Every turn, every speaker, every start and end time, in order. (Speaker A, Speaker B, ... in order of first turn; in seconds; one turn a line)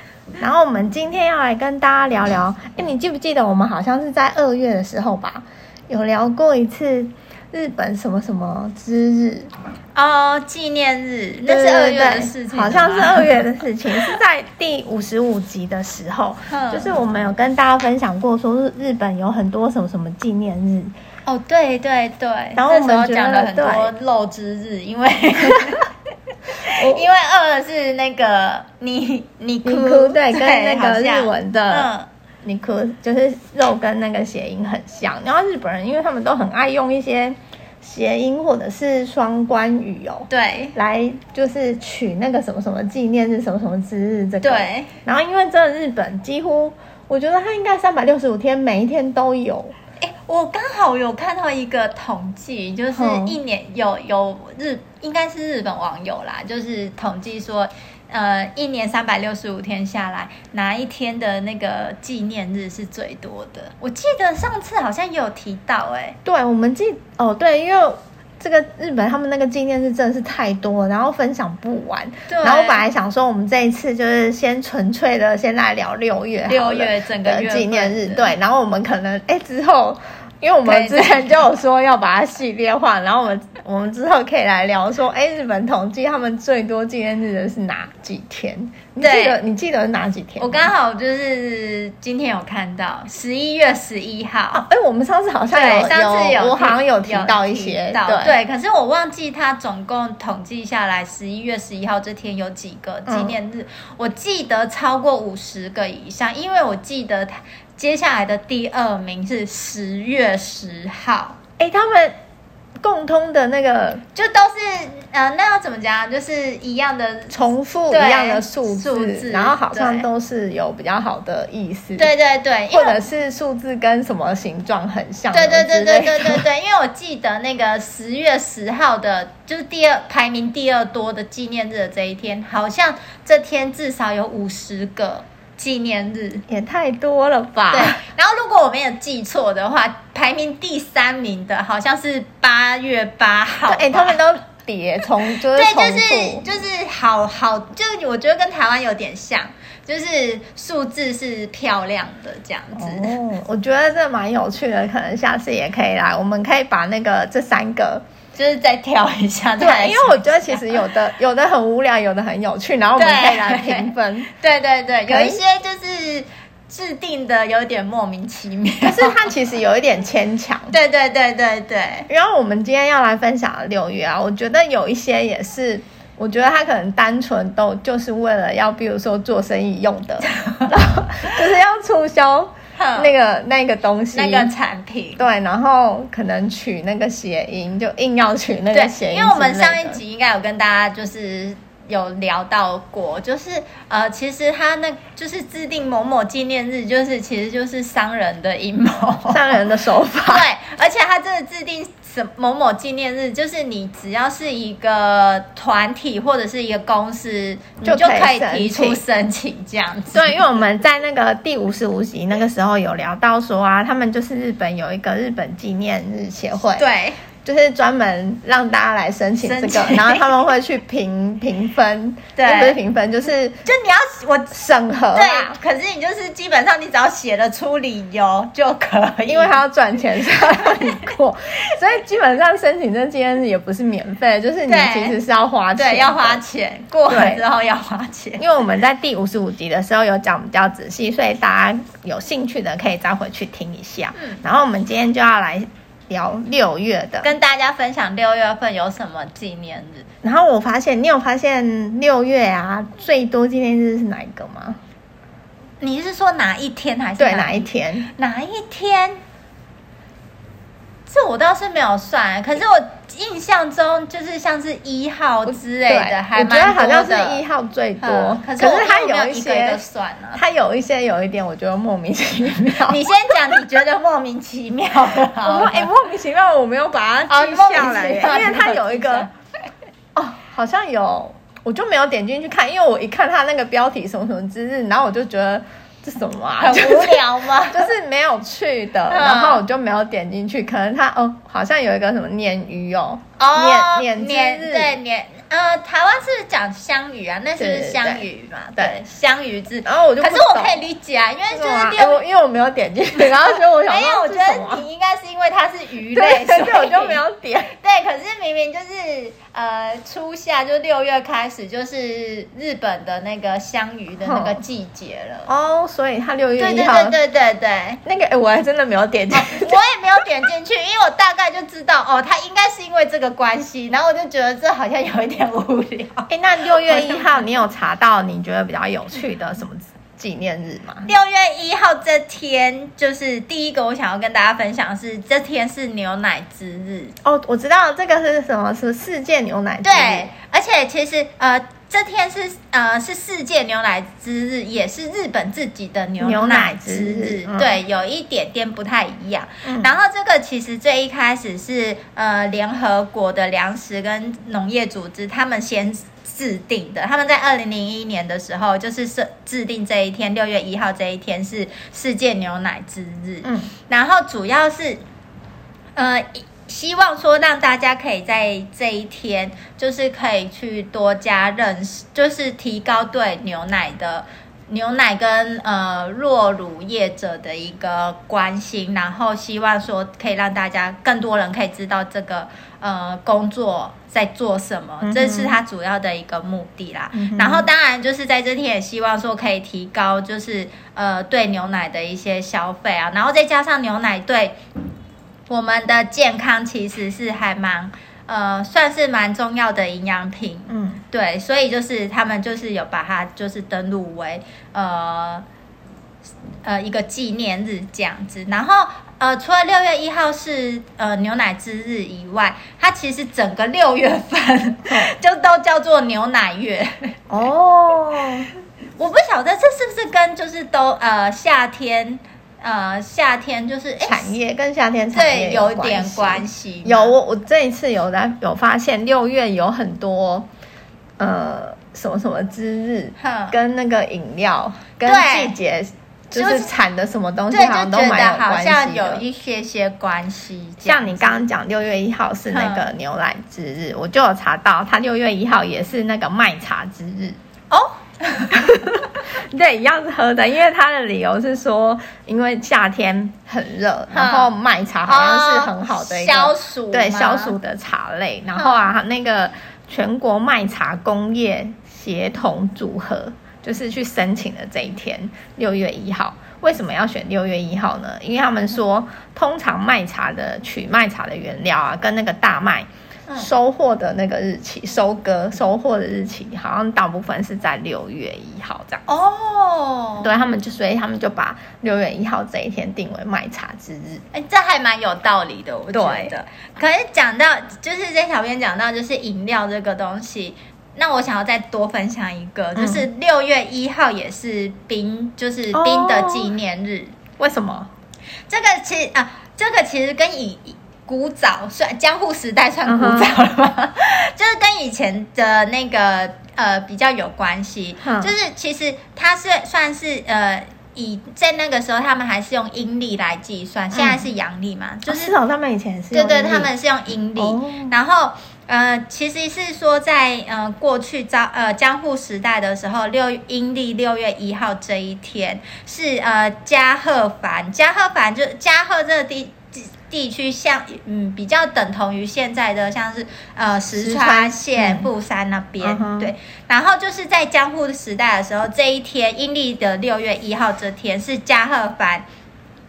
Speaker A: 0.4-9.5
Speaker B: 9.9-13.4
Speaker A: 11.4-20.9
Speaker B: 16.5-16.9
Speaker B: 21.2-25.9
Speaker A: 22.6-23.9
Speaker B: 26.5-32.1
Speaker A: 26.6-27.0
Speaker A: 29.6-31.9
Speaker A: 32.4-49.7
Speaker B: 40.3-40.8
Speaker B: 44.4-44.9
Speaker B: 50.0-66.2
Speaker A: 52.9-53.4
Speaker A: 66.2-90.7
Speaker B: 72.3-72.8
Speaker B: 76.5-78.3
Speaker B: 80.6-81.3
Speaker B: 89.0-89.4
Speaker B: 90.4-94.6
Speaker A: 94.5-98.4
Speaker B: 95.5-111.4
Speaker A: 103.1-103.4
Speaker A: 111.6-112.1
Speaker A: 112.8-114.0
Speaker B: 114.1-117.4
Speaker A: 117.3-122.1
Speaker B: 117.9-120.1
Speaker B: 122.0-123.0
Speaker A: 122.7-126.5
Speaker B: 125.3-136.4
Speaker A: 136.5-138.0
Speaker B: 137.7-144.2
Speaker A: 143.7-146.4
Speaker B: 145.5-153.2
Speaker A: 152.8-158.0
Speaker B: 158.3-160.8
Speaker A: 159.6-164.3
Speaker B: 162.9-169.3
Speaker A: 165.1-165.4
Speaker A: 168.8-170.7
Speaker B: 170.7-172.1
Speaker A: 172.1-184.5
Speaker B: 180.2-181.3
Speaker B: 182.8-183.1
Speaker B: 184.1-185.2
Speaker A: 185.2-190.0
Speaker B: 188.7-199.6
Speaker A: 199.3-200.5
Speaker B: 200.2-210.4
Speaker A: 207.8-209.0
Speaker A: 210.1-216.8
Speaker B: 216.7-217.2
Speaker A: 217.4-223.6
Speaker B: 219.4-220.3
Speaker B: 222.3-222.8
Speaker B: 223.6-224.6
Speaker A: 224.5-225.6
Speaker B: 225.1-229.6
Speaker A: 229.2-236.4
Speaker B: 230.3-231.1
Speaker B: 234.7-235.2
Speaker B: 235.7-238.4
Speaker A: 237.1-237.4
Speaker A: 238.4-247.3
Speaker B: 247.2-250.1
Speaker A: 250.2-254.8
Speaker B: 255.8-259.2
Speaker A: 257.2-258.1
Speaker B: 261.1-267.4
Speaker A: 265.5-269.8
Speaker B: 268.0-270.4
Speaker A: 270.3-273.6
Speaker B: 272.9-275.9
Speaker A: 275.4-279.3
Speaker B: 277.3-279.3
Speaker A: 280.1-295.0
Speaker B: 286.6-287.9
Speaker B: 289.1-289.6
Speaker B: 293.4-302.2
Speaker A: 297.6-298.2
Speaker A: 299.8-300.8
Speaker A: 301.5-304.8
Speaker B: 303.2-307.2
Speaker A: 306.1-307.7
Speaker B: 307.7-315.5
Speaker A: 314.2-314.6
Speaker A: 315.5-317.2
Speaker B: 316.6-318.0
Speaker A: 318.0-319.8
Speaker B: 319.3-327.4
Speaker A: 326.3-331.1
Speaker B: 331.1-337.1
Speaker A: 337.2-340.3
Speaker B: 339.8-365.0
Speaker A: 346.2-347.8
Speaker A: 349.6-349.9
Speaker A: 363.4-363.7
Speaker B: 365.9-394.6
Speaker A: 385.0-385.6
Speaker A: 387.1-387.7
Speaker B: 395.5-405.4
Speaker A: 400.7-401.0
Speaker B: 406.6-417.1
Speaker A: 414.9-415.1
Speaker A: 417.3-418.5
Speaker B: 419.0-424.3
Speaker A: 424.0-430.5
Speaker B: 425.1-427.1
Speaker A: 431.2-439.2
Speaker B: 433.2-433.6
Speaker B: 435.0-435.5
Speaker B: 436.3-436.7
Speaker B: 437.5-441.4
Speaker A: 440.8-447.4
Speaker B: 442.5-442.9
Speaker B: 447.7-448.6
Speaker A: 448.5-479.0
Speaker B: 454.1-454.5
Speaker B: 455.1-457.6
Speaker B: 479.1-480.3
Speaker A: 480.2-484.2
Speaker B: 484.3-497.1
Speaker A: 485.9-486.3
Speaker A: 492.8-493.1
Speaker A: 495.7-496.5
Speaker A: 497.4-497.9
Speaker B: 498.5-515.3
Speaker A: 502.9-503.4
Speaker A: 508.0-508.3
Speaker A: 513.9-514.2
Speaker A: 515.1-516.7
Speaker B: 516.1-542.2
Speaker A: 517.4-517.9
Speaker A: 533.9-535.1
Speaker A: 535.8-536.3